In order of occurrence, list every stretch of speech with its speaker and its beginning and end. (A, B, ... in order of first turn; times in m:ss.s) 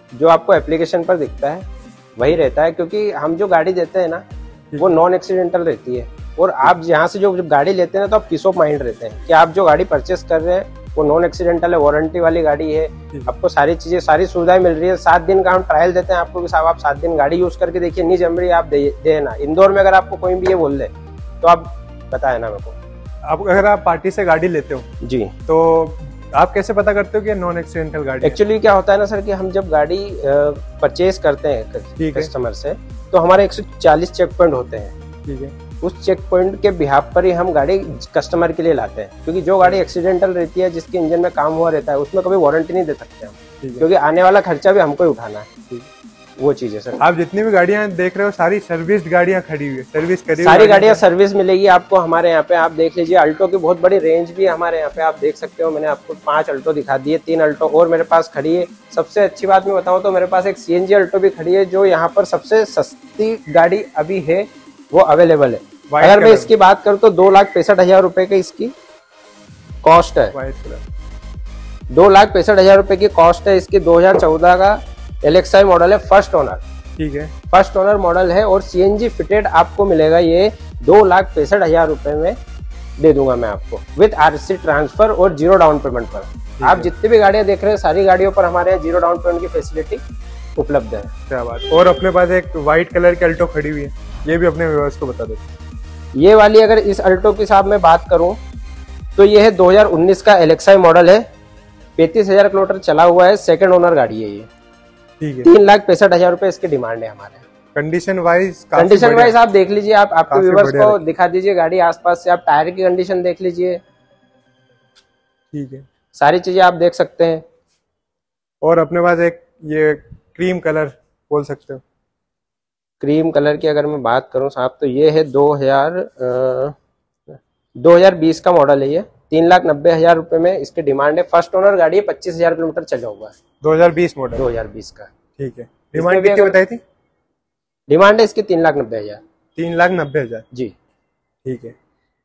0:00.2-0:04.2 A
0:04.7-0:05.0 B
0:04.8-0:20.9 A
0:21.4-0:22.8 A
0:23.2-0:24.9 B
0:25.0-0:25.4 A
0:25.5-0:28.4 B
0:28.2-0:35.0 A
0:32.0-0:32.3 B
0:35.3-0:35.6 B
0:35.8-0:45.5 A
0:43.6-0:43.9 B
0:46.4-0:47.0 A
0:47.0-0:51.0 B
0:50.4-1:08.7 A
1:05.9-1:06.5 B
1:09.8-1:10.4 A
1:10.3-1:10.8 B
1:11.9-1:16.6 A
1:17.0-1:17.3 B
1:17.5-1:22.4 A
1:23.0-1:30.0 A
1:26.6-1:26.9 B
1:30.6-1:31.1 A
1:31.3-1:35.5 B
1:36.2-1:38.4 A
1:39.2-1:41.3 A
1:42.0-1:44.5 A
1:45.2-1:45.5 B
1:45.4-1:47.4 A
1:47.8-1:49.4 B
1:48.8-1:53.8 A
1:50.3-1:51.0 B
1:55.5-1:55.9 B
1:56.1-1:57.4 A
1:58.6-2:01.8 B
2:03.0-2:06.8 A
2:07.8-2:13.4 A
2:13.6-2:14.4 B
2:14.4-2:15.1 A
2:15.4-2:16.8 B
2:15.9-2:16.6 A
2:17.9-2:19.2 A
2:19.6-2:20.4 B
2:21.4-2:21.8 B